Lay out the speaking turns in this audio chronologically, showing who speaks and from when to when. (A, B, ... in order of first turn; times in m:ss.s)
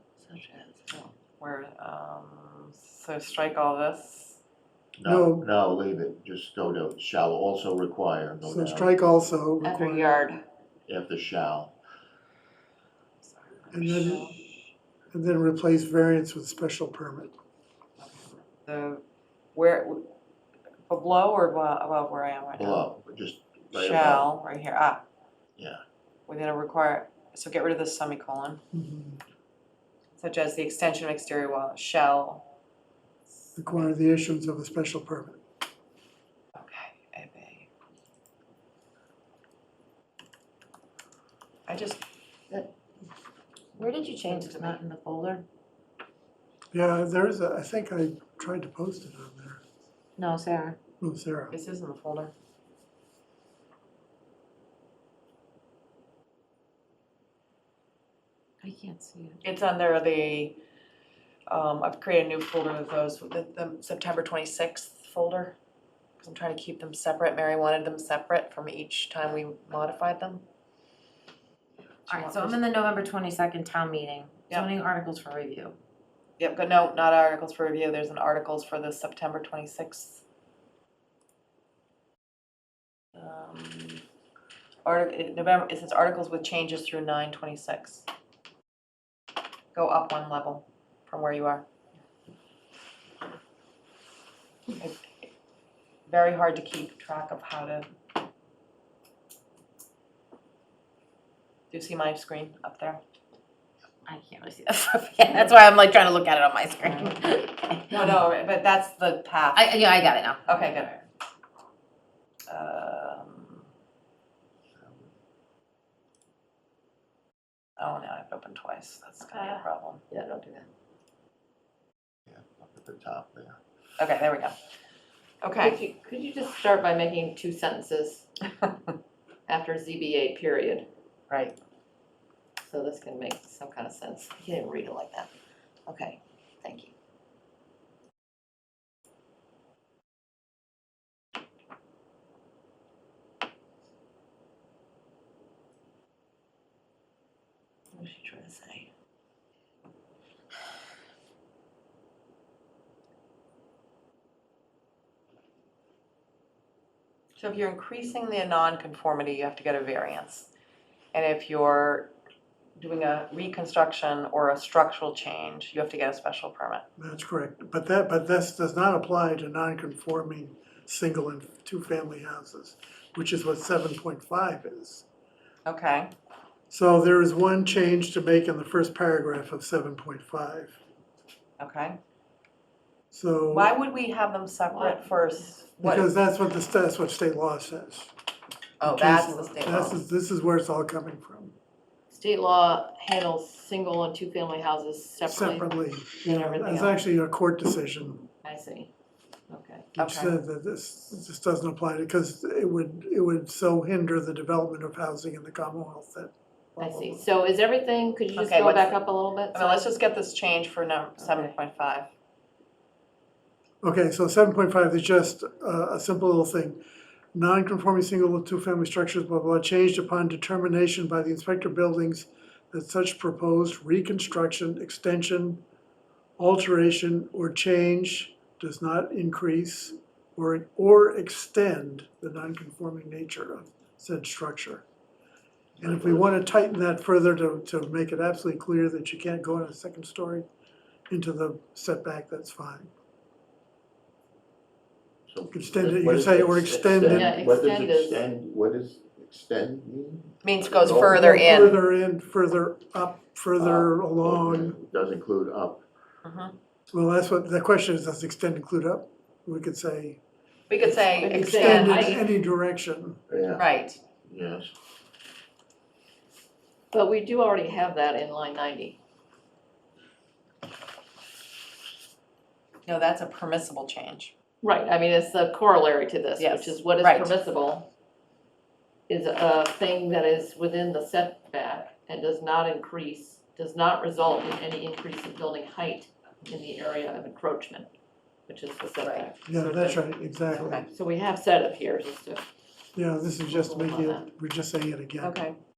0:00.2-0:01.1 A
0:00.9-0:04.4 B
0:04.9-0:08.9 C
0:05.0-0:05.4 D
0:08.4-0:10.2 D
0:09.6-0:10.4 B
0:10.9-0:11.7 C
0:13.2-0:14.5 B
0:13.7-0:14.3 D
0:15.1-0:17.3 D
0:18.0-0:19.0 B
0:19.5-0:20.1 B
0:20.9-0:22.9 B
0:22.6-0:24.3 C
0:23.7-0:25.0 B
0:26.3-0:28.6 B
0:28.7-0:29.2 D
0:30.2-0:32.4 B
0:33.6-0:35.4 D
0:33.6-0:33.9 B
0:36.5-0:37.7 B
0:41.7-0:42.0 B
0:43.8-0:45.4 E
0:44.2-0:44.8 A
0:46.7-0:49.6 D
0:50.2-0:50.8 E
0:51.0-0:51.5 D
0:51.5-0:52.3 B
0:58.6-0:59.4 E
0:59.4-1:00.6 B
1:01.5-1:05.5 B
1:06.2-1:10.4 B
1:12.1-1:12.6 B
1:12.1-1:15.8 E
1:16.4-1:20.2 B
1:23.1-1:24.0 B
1:24.8-1:28.0 B
1:29.7-1:31.6 B
1:34.8-1:35.3 B
1:36.1-1:37.9 B
1:41.7-1:43.0 B
1:44.0-1:48.2 E
1:46.8-1:47.1 B
1:47.9-1:49.8 B
1:49.5-1:50.8 E
1:50.4-1:51.0 B
1:52.5-1:53.6 B
1:54.7-1:55.1 C
1:57.8-2:00.0 B
1:59.3-2:00.7 A
2:02.3-2:03.6 C
2:04.0-2:04.5 B
2:05.4-2:05.8 B
2:05.6-2:08.3 A
2:09.5-2:10.9 A
2:11.3-2:11.6 B
2:12.6-2:15.3 A
2:15.9-2:16.9 A
2:27.9-2:28.8 B
2:37.4-2:40.5 B
2:41.1-2:42.1 B
2:42.8-2:46.8 B
2:47.0-2:55.0 D
2:55.6-2:56.1 B
2:56.7-3:00.8 D
3:01.6-3:02.0 B
3:03.1-3:03.7 D
3:03.5-3:06.1 B
3:04.7-3:05.1 A
3:05.8-3:08.1 D
3:08.8-3:10.0 B
3:08.8-3:11.5 D
3:12.1-3:17.0 A
3:15.3-3:18.2 D
3:18.4-3:18.9 A
3:19.5-3:19.9 A
3:19.9-3:27.2 D
3:20.0-3:20.3 B
3:26.8-3:29.9 A
3:28.4-3:32.1 B
3:31.2-3:31.5 A
3:33.8-3:36.8 D
3:37.3-3:45.6 D
3:46.4-3:54.8 D
3:55.8-3:56.3 C
3:55.8-4:00.4 D
4:01.1-4:02.9 D
4:05.3-4:11.3 C
4:05.5-4:07.4 D
4:07.0-4:08.2 A
4:10.4-4:11.8 B
4:10.8-4:14.8 D
4:13.6-4:15.8 C
4:16.2-4:16.5 B
4:16.9-4:20.2 D
4:20.7-4:22.2 B
4:20.8-4:23.2 D
4:21.2-4:22.2 A
4:23.3-4:23.7 C
4:23.6-4:24.0 B
4:24.2-4:24.7 C
4:26.9-4:29.0 A
4:32.8-4:34.3 B
4:34.6-4:37.9 A
4:36.4-4:37.3 B
4:39.1-4:47.9 A
4:48.5-4:50.0 A
4:49.0-4:50.0 B
4:49.4-4:50.8 D
4:50.5-4:50.9 B
4:50.7-4:52.4 A
4:52.9-4:55.4 D
4:53.4-4:54.3 A
4:55.2-4:55.6 B